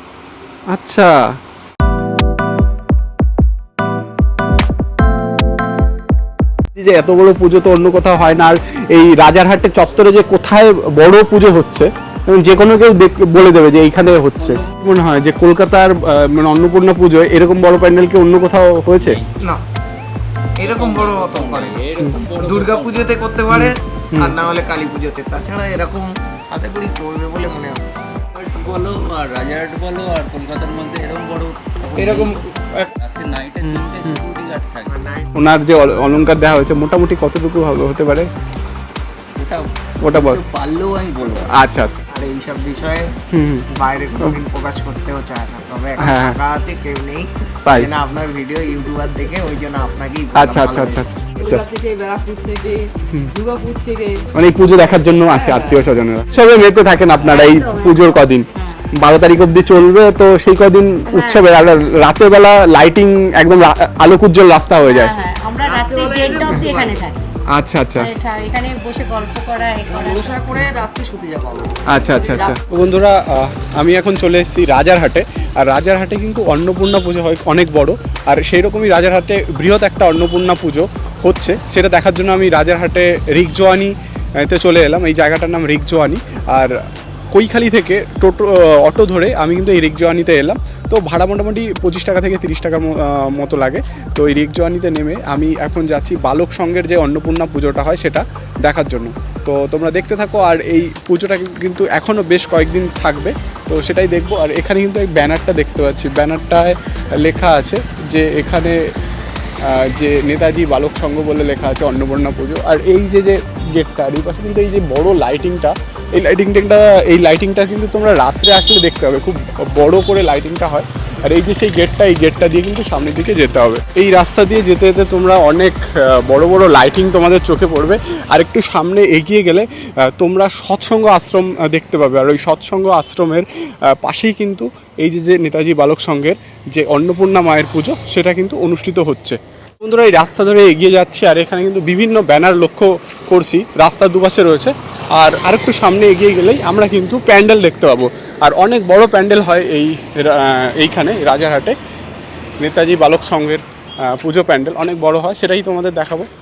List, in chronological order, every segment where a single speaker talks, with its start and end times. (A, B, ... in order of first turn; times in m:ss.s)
0:00.7-0:01.4 A
0:06.8-0:19.2 A
0:19.0-0:19.3 B
0:20.6-0:21.8 C
0:20.6-0:23.2 B
0:22.4-0:27.8 C
0:23.5-0:24.4 A
0:28.3-0:32.4 B
0:32.0-0:32.9 C
0:33.0-0:35.0 B
0:33.6-0:34.2 A
0:34.9-0:35.3 C
0:35.4-0:38.3 A
0:39.4-0:41.5 B
0:40.0-0:40.4 A
0:41.5-0:42.0 A
0:42.1-0:43.1 C
0:43.3-0:43.7 A
0:43.7-0:51.0 C
0:46.0-0:46.4 A
0:50.4-0:51.6 A
0:51.4-0:54.3 D
0:54.3-0:58.5 A
0:55.3-0:55.8 D
0:55.3-0:55.7 E
0:57.2-0:58.9 E
0:59.0-1:05.2 A
1:01.1-1:01.5 E
1:04.8-1:07.3 E
1:05.6-1:07.1 D
1:07.5-1:08.1 A
1:08.0-1:10.5 E
1:09.9-1:12.6 D
1:11.9-1:26.8 A
1:27.3-1:48.8 A
1:49.6-2:31.8 A
2:32.6-2:36.3 A